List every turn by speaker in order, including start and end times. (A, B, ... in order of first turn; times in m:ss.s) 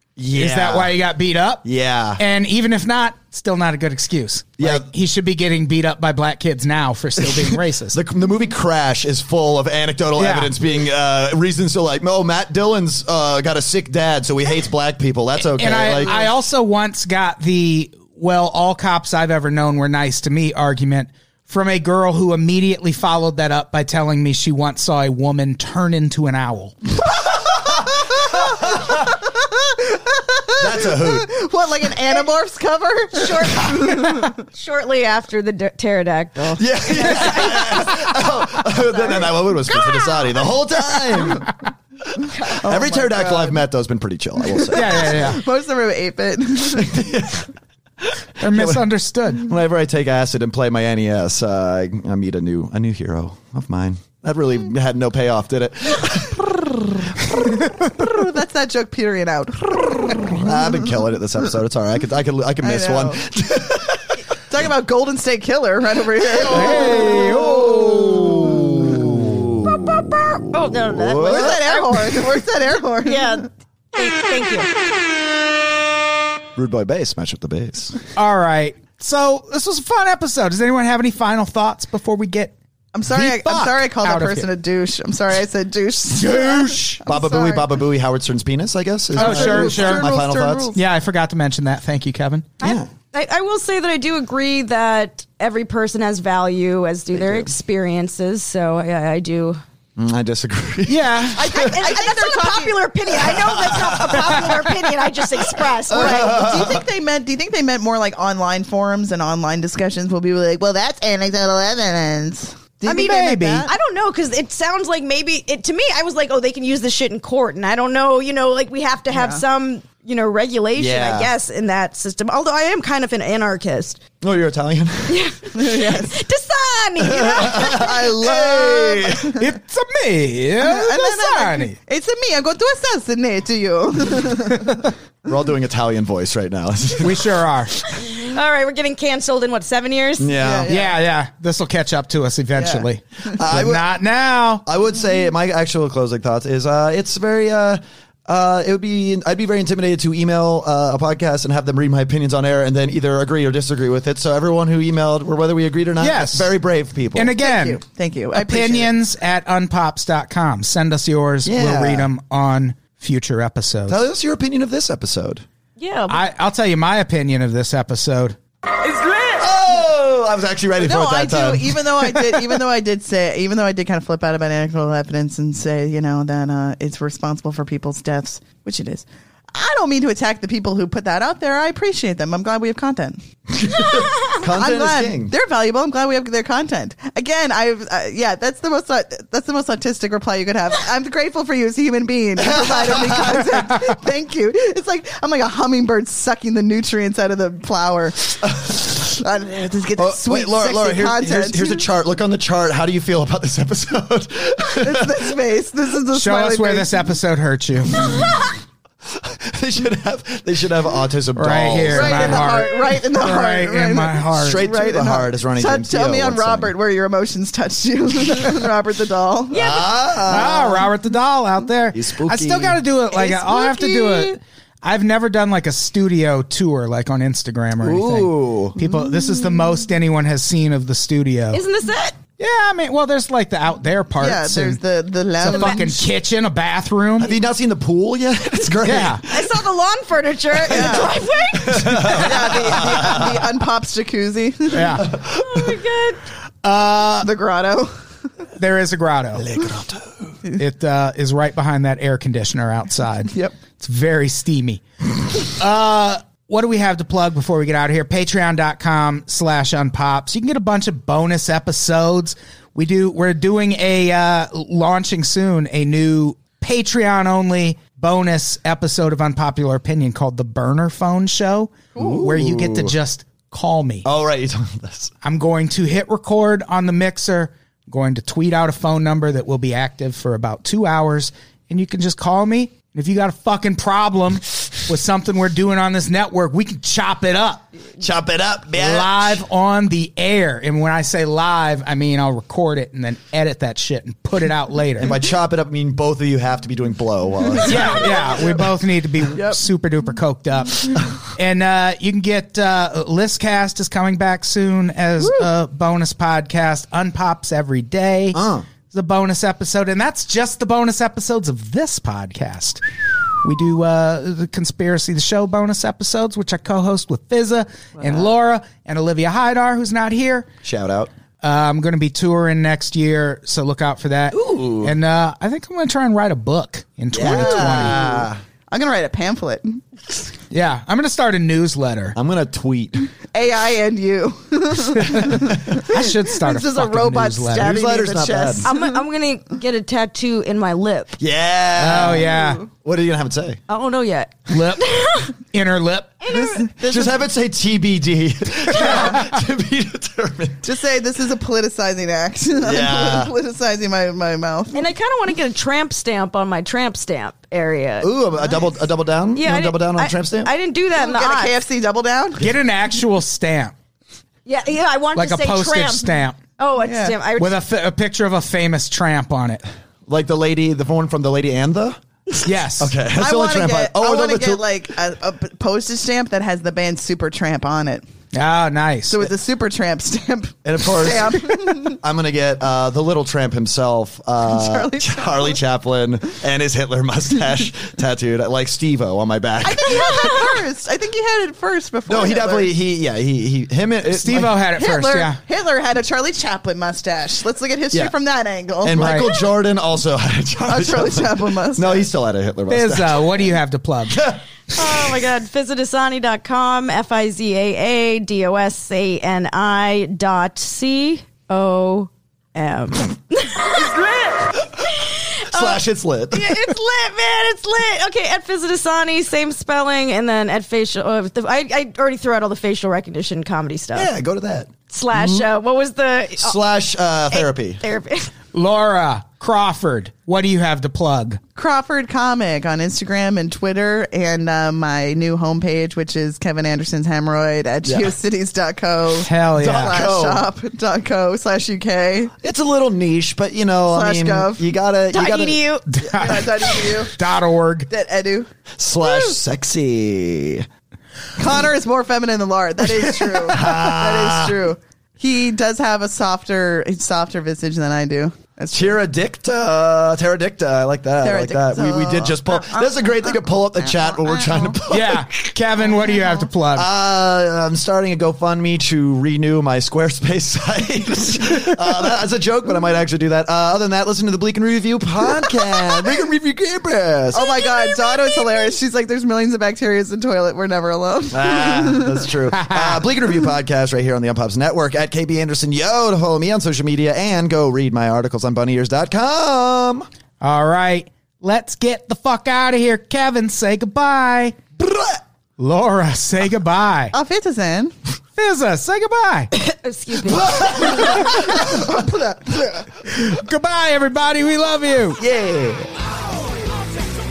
0:00.2-0:00.9 A
0:00.3-0:01.6 B
0:01.6-0:02.2 A
0:02.2-0:08.0 B
0:04.6-0:04.9 A
0:07.2-0:16.3 A
0:10.2-0:10.5 B
0:15.6-0:26.7 B
0:27.5-0:34.4 C
0:28.2-0:29.1 A
0:30.6-0:31.3 A
0:33.1-0:40.2 D
0:36.6-0:41.5 A
0:42.2-0:43.6 C
0:42.3-0:42.6 D
0:42.6-0:45.2 A
0:44.5-0:47.0 C
0:44.7-0:45.4 B
0:46.7-0:47.5 A
0:48.0-0:56.9 A
0:48.4-0:49.5 B
0:57.8-1:01.0 C
1:00.4-1:04.2 A
1:02.6-1:03.2 C
1:04.5-1:07.4 C
1:06.4-1:12.0 A
1:06.4-1:09.4 B
1:09.9-1:12.2 D
1:11.2-1:13.5 C
1:13.0-1:14.7 D
1:16.6-1:18.0 A
1:18.2-1:22.5 B
1:22.9-1:27.7 C
1:23.1-1:24.5 B
1:26.2-1:27.0 B
1:27.0-1:30.7 A
1:29.1-1:30.8 C
1:29.2-1:30.1 B
1:30.7-1:32.5 B
1:32.6-1:32.9 A
1:32.6-1:39.6 D
1:37.2-1:37.5 A
1:40.0-1:41.8 A
1:40.8-1:41.4 B
1:41.4-1:42.8 C
1:41.5-1:46.4 D
1:43.1-1:44.9 A
1:45.9-1:46.8 A
1:45.9-1:53.7 C
1:52.8-1:53.6 B
1:53.6-2:04.0 D
1:59.1-1:59.4 C
2:00.8-2:01.3 A
2:04.2-2:05.2 A
2:05.1-2:08.1 D
2:05.5-2:06.2 C
2:07.0-2:09.4 A
2:07.8-2:09.4 C
2:09.4-2:11.8 B
2:10.6-2:14.8 C
2:15.2-2:17.4 A
2:17.0-2:17.8 B
2:18.0-2:20.3 D
2:20.2-2:20.7 A
2:20.4-2:21.0 C
2:20.7-2:24.6 B
2:22.6-2:23.4 C
2:23.3-2:23.8 A
2:24.6-2:37.4 A
2:36.0-2:36.5 B
2:37.1-2:37.8 B
2:37.4-2:38.9 C
2:38.3-2:44.0 B
2:41.4-2:42.1 A
2:43.9-2:45.4 A
2:45.8-2:46.2 D
2:46.1-2:48.4 B
2:49.4-2:51.8 A
2:50.8-3:03.2 C
3:03.5-3:05.3 A
3:04.4-3:21.8 C
3:12.4-3:13.5 A
3:18.4-3:18.8 A
3:20.0-3:25.3 A
3:24.8-3:26.9 C
3:26.1-3:28.2 B
3:28.0-3:28.4 A
3:29.0-3:32.6 A
3:31.4-3:34.6 B
3:31.9-3:39.8 C
3:34.4-3:36.7 A
3:39.5-3:39.9 D
3:39.5-3:40.9 A
3:40.2-3:51.6 B
3:41.9-3:42.8 A
3:43.1-3:44.4 C
3:47.8-3:48.8 A
3:51.5-3:52.2 D
3:52.4-3:54.8 B
3:54.2-3:56.0 C
3:55.4-3:57.3 B
3:55.5-3:55.8 D
3:57.2-3:59.6 A
3:58.8-3:59.2 B
3:59.3-4:03.1 D
4:00.6-4:01.1 A
4:00.7-4:01.1 C
4:01.6-4:03.5 A
4:02.1-4:05.0 C
4:04.7-4:05.1 B
4:05.0-4:05.8 A
4:05.2-4:06.2 D
4:06.6-4:07.3 B
4:07.2-4:07.9 C
4:08.6-4:09.6 B
4:09.4-4:10.4 A
4:10.5-4:14.8 B
4:15.4-4:34.1 B
4:32.0-4:32.9 A
4:32.0-4:32.2 C
4:34.0-4:35.1 A
4:35.2-4:47.7 B
4:48.0-4:49.4 A
4:48.7-4:55.1 B
4:55.0-4:58.7 A
4:57.6-4:58.2 C
4:57.6-5:12.8 B
5:08.3-5:08.6 A
5:13.4-5:20.5 B
5:20.6-5:21.1 A
5:21.4-5:28.0 B
5:24.3-5:24.9 A
5:27.1-5:28.4 A
5:27.2-5:29.8 C
5:30.5-5:32.2 B
5:32.1-5:33.1 A
5:33.3-5:38.9 C
5:35.0-5:37.8 B
5:35.3-5:35.6 A
5:37.6-5:38.7 A
5:38.6-5:41.2 D
5:41.2-5:43.6 A
5:41.8-5:42.6 B
5:41.9-5:42.6 C
5:43.7-5:45.3 D
5:44.5-5:46.2 B
5:46.2-5:46.7 D
5:46.3-5:47.2 C
5:46.8-5:50.7 A
5:48.8-5:49.2 C
5:50.6-5:54.8 C
5:52.6-5:53.3 A
5:54.7-5:58.6 D
5:58.0-6:00.5 A
5:59.3-6:01.5 D
6:01.0-6:02.4 C
6:02.4-6:03.7 B
6:04.4-6:07.6 D
6:05.1-6:06.4 B
6:06.8-6:07.1 C
6:07.4-6:09.6 B
6:10.1-6:12.0 A
6:12.4-6:12.9 B
6:12.8-6:14.6 A
6:13.2-6:18.0 C
6:18.3-6:19.2 B
6:19.1-6:22.0 C
6:20.6-6:30.5 A
6:24.5-6:25.6 C
6:29.6-6:32.7 C
6:32.1-6:34.5 A
6:34.0-6:35.4 B
6:34.7-6:39.4 C
6:38.8-6:43.5 A
6:39.0-6:39.3 B
6:40.6-6:42.1 C
6:42.7-6:44.3 B
6:44.1-6:45.1 A
6:44.7-7:04.1 D
6:55.5-6:56.7 A
7:03.9-7:05.4 A
7:04.9-7:06.6 D
7:06.4-7:07.8 A
7:07.3-7:08.3 D
7:08.5-7:11.4 B
7:11.6-7:22.3 C
7:17.8-7:18.1 A
7:19.2-7:20.1 B
7:19.6-7:20.4 A
7:22.4-7:25.6 A
7:23.9-7:24.6 C
7:25.1-7:25.8 D
7:25.9-7:27.9 B
7:26.1-7:27.1 C
7:27.9-7:28.5 C
7:28.8-7:30.6 A
7:29.0-7:29.3 C
7:31.4-7:39.0 C
7:33.4-7:34.6 A
7:38.7-7:45.3 A
7:41.2-7:44.8 C
7:44.9-7:46.9 B
7:46.1-7:46.4 C
7:46.7-7:57.5 A
7:57.3-8:02.2 C
7:57.3-7:58.8 D
8:01.3-8:10.1 A
8:02.5-8:03.0 B
8:10.4-8:14.6 B
8:14.8-8:15.2 A
8:15.6-8:17.1 B
8:17.1-8:17.9 C
8:18.4-8:19.5 B
8:19.5-8:21.4 D
8:20.2-8:22.6 A
8:23.0-8:25.2 B
8:25.2-8:25.9 A